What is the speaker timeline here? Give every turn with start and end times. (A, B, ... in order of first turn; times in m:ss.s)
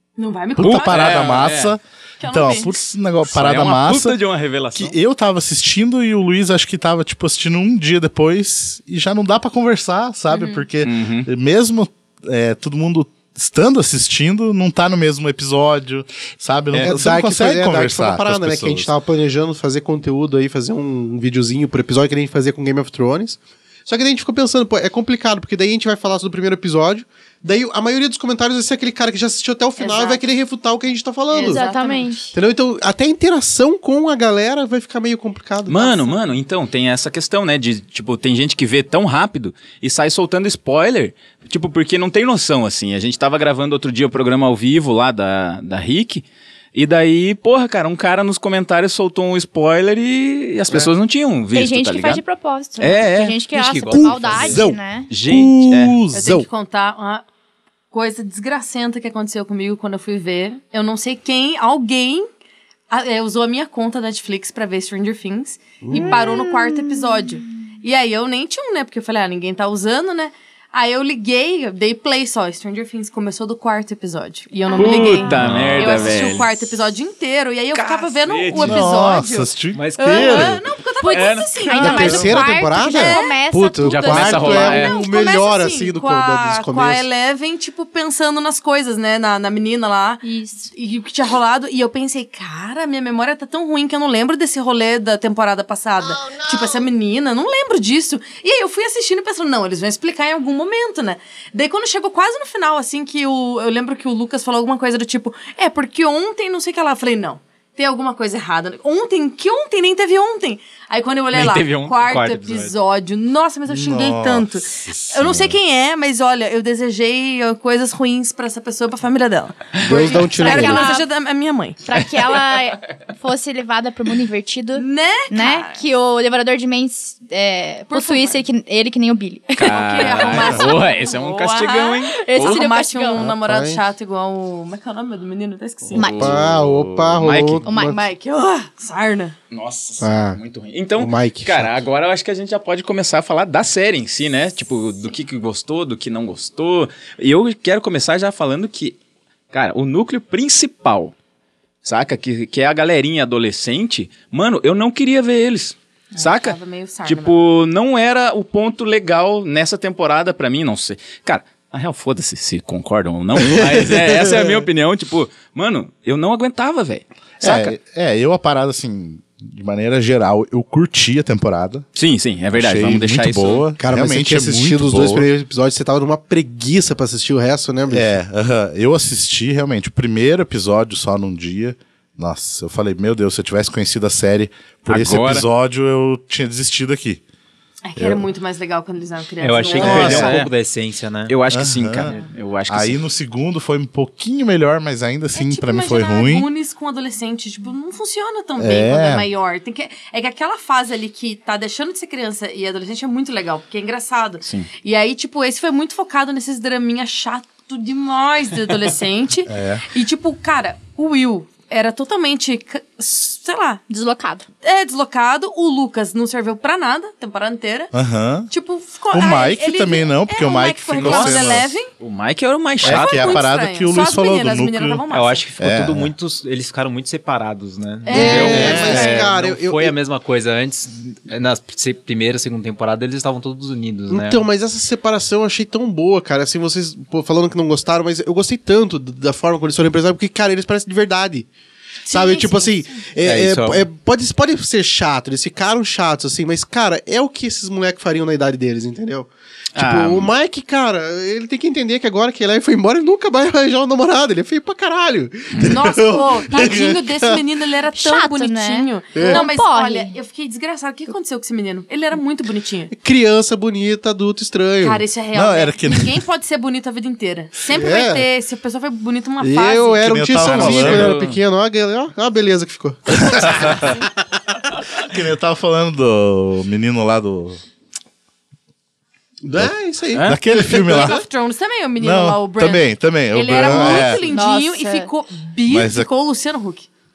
0:00.2-0:01.4 A
0:00.6-0:04.2 B
0:00.6-0:01.7 C
0:02.2-0:02.7 A
0:03.3-0:05.0 C
0:04.7-0:18.9 B
0:10.3-0:10.6 A
0:10.8-0:11.3 C
0:16.7-0:31.6 D
0:29.8-0:30.2 A
0:31.3-0:32.1 A
0:31.4-0:32.3 E
0:32.3-0:35.9 D
0:35.7-0:52.2 C
0:51.5-0:55.1 E
0:52.8-0:53.4 C
0:53.5-0:54.6 F
0:53.9-0:56.5 D
0:55.1-0:56.0 C
0:55.3-0:56.0 B
0:56.1-0:57.2 A
0:57.9-1:02.3 A
1:02.9-1:22.2 A
1:05.8-1:06.3 D
1:05.9-1:07.4 E
1:14.8-1:16.8 C
1:14.8-1:15.2 E
1:15.4-1:15.7 F
1:17.7-1:18.9 C
1:18.6-1:20.6 B
1:19.7-1:20.4 F
1:20.1-1:20.4 E
1:21.0-1:24.9 E
1:21.1-1:21.5 C
1:21.8-1:27.0 D
1:22.8-1:23.4 A
1:23.8-1:25.0 C
1:24.5-2:01.8 A
1:30.2-1:30.7 E
1:51.3-1:52.4 C
1:52.0-1:52.7 F
1:53.7-1:55.6 B
1:59.8-2:00.9 D
2:00.4-2:01.0 E
2:01.8-2:10.4 E
2:04.8-2:05.8 A
2:07.9-2:08.4 A
2:09.6-2:12.6 C
2:09.6-2:16.1 A
2:12.1-2:13.2 E
2:13.2-2:13.8 D
2:15.9-2:17.6 C
2:15.9-2:16.3 E
2:16.0-2:18.0 D
2:17.6-2:18.0 E
2:17.8-2:19.4 A
2:19.5-2:29.0 C
2:20.0-2:20.4 D
2:21.0-2:21.8 D
2:29.5-2:31.1 C
2:31.8-2:47.7 C
2:36.1-2:37.4 A
2:47.4-2:51.8 B
2:51.9-2:53.6 C
2:52.5-2:55.3 B
2:53.8-2:58.1 D
2:57.9-3:07.2 B
3:04.9-3:05.4 C
3:07.8-3:10.5 A
3:08.0-3:08.2 B
3:09.4-3:11.3 F
3:09.6-3:10.5 C
3:09.8-3:10.3 B
3:11.3-3:13.0 C
3:11.5-3:12.1 B
3:12.7-3:16.5 B
3:15.3-3:33.8 A
3:18.6-3:19.2 B
3:29.5-3:29.8 B
3:33.9-3:34.4 E
3:34.6-3:37.9 A
3:37.9-3:38.5 B
3:38.5-3:41.9 A
3:39.1-3:41.7 B
3:40.9-3:43.4 C
3:42.8-3:45.5 A
3:42.8-3:45.0 B
3:45.1-3:54.4 F
3:45.6-3:46.1 B
3:48.0-3:49.3 A
3:48.1-3:50.0 D
3:48.4-3:49.1 B
3:54.1-4:01.5 D
4:02.0-4:03.1 A
4:02.1-4:17.4 D
4:03.2-4:03.8 F
4:09.7-4:10.3 C
4:15.6-4:22.9 A
4:17.9-4:20.2 E
4:19.1-4:19.4 D
4:22.9-4:25.0 D
4:24.8-4:30.4 A
4:25.3-4:26.2 B
4:27.6-4:28.3 D
4:29.4-4:34.1 D
4:30.0-4:31.2 B
4:30.4-4:31.4 C
4:33.1-4:33.9 B
4:35.0-4:37.6 B
4:39.4-4:41.2 D
4:40.1-4:40.4 C
4:40.2-4:41.2 B
4:40.7-4:46.9 A
4:42.0-4:44.2 B
4:43.7-4:44.0 D
4:44.2-4:45.1 E
4:45.7-4:46.1 B